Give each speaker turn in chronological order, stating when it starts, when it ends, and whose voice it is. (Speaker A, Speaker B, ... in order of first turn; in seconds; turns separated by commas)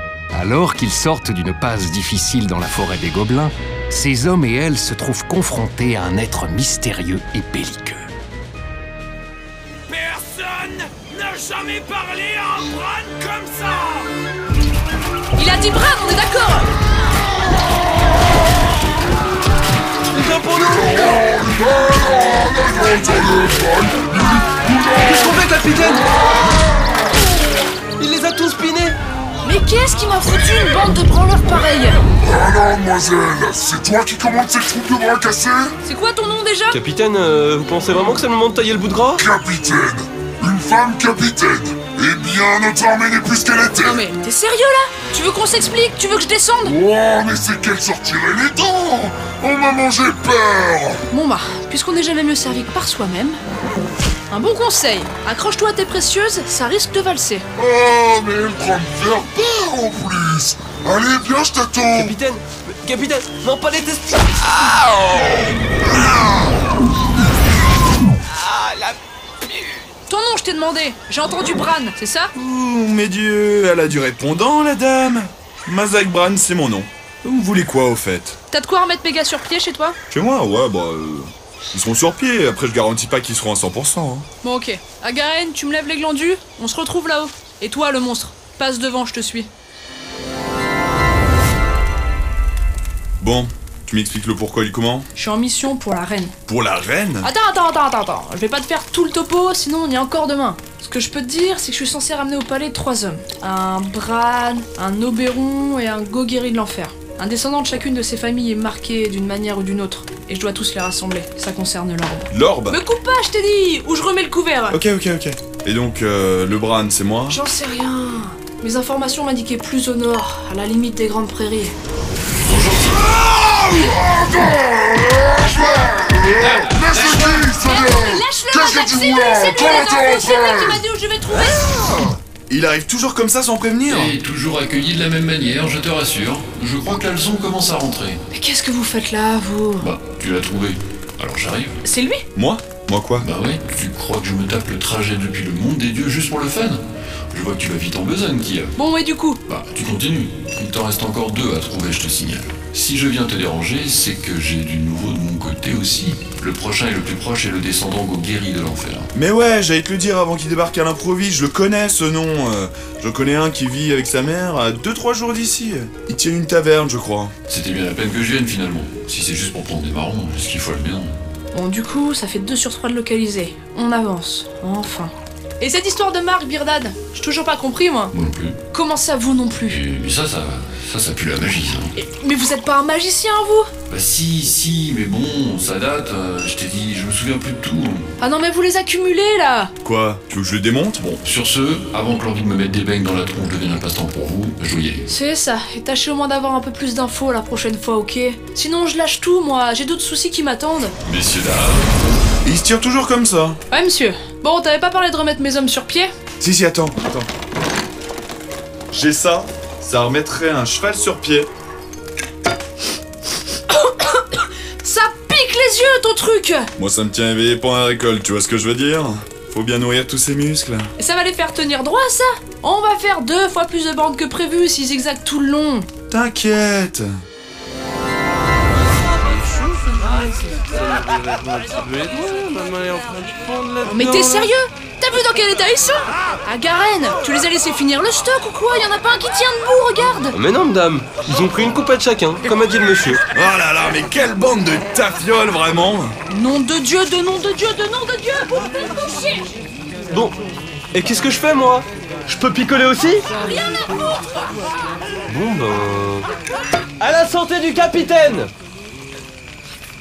Speaker A: 0.3-8.0, Speaker B: 10.1-14.0, Speaker C: 15.3-16.7, Speaker D: 20.1-21.1, Speaker E: 20.6-26.0, Speaker D: 25.0-26.1, Speaker D: 28.0-28.9, Speaker C: 29.4-32.0, Speaker E: 32.2-35.7, Speaker C: 35.8-36.8, Speaker D: 36.7-39.2, Speaker E: 39.2-44.0, Speaker C: 43.8-46.8, Speaker E: 46.7-51.0, Speaker C: 51.1-53.4, Speaker C: 54.3-57.4, Speaker E: 57.6-62.2, Speaker D: 61.9-65.0, Speaker C: 70.1-72.3, Speaker F: 72.3-78.3, Speaker C: 78.5-80.0, Speaker F: 80.1-84.2, Speaker C: 84.4-89.5, Speaker F: 93.2-95.0, Speaker C: 95.1-96.3, Speaker F: 96.5-97.3, Speaker C: 97.2-114.8, Speaker F: 112.3-112.8, Speaker F: 114.7-117.4, Speaker C: 117.3-121.7, Speaker G: 122.4-123.2, Speaker E: 123.4-130.8, Speaker G: 126.3-127.5, Speaker C: 127.6-131.7, Speaker F: 132.5-134.1, Speaker G: 133.9-138.2, Speaker C: 138.3-139.9, Speaker G: 139.8-141.8, Speaker C: 141.8-142.2, Speaker F: 142.3-143.3, Speaker G: 143.2-146.8, Speaker G: 147.3-148.7, Speaker C: 148.8-149.4, Speaker G: 149.5-159.1, Speaker F: 159.1-167.3, Speaker G: 167.5-171.1, Speaker C: 171.5-178.1, Speaker G: 178.1-178.6, Speaker C: 178.7-179.8, Speaker G: 179.7-181.9, Speaker C: 181.9-183.7, Speaker G: 183.9-188.1, Speaker C: 188.2-189.7, Speaker F: 189.8-191.2, Speaker G: 191.2-195.1, Speaker C: 195.1-200.9, Speaker G: 201.0-201.9, Speaker F: 202.4-203.6, Speaker C: 203.7-206.1, Speaker F: 206.4-207.3, Speaker F: 208.9-211.5, Speaker C: 213.7-216.7, Speaker F: 216.8-220.9, Speaker C: 221.0-225.9, Speaker F: 226.1-227.1, Speaker C: 233.8-240.3, Speaker D: 240.3-243.2, Speaker F: 243.3-246.1, Speaker C: 246.3-249.4, Speaker D: 250.1-250.4, Speaker D: 250.9-253.3, Speaker C: 253.4-254.0, Speaker D: 255.3-256.3, Speaker D: 257.0-258.5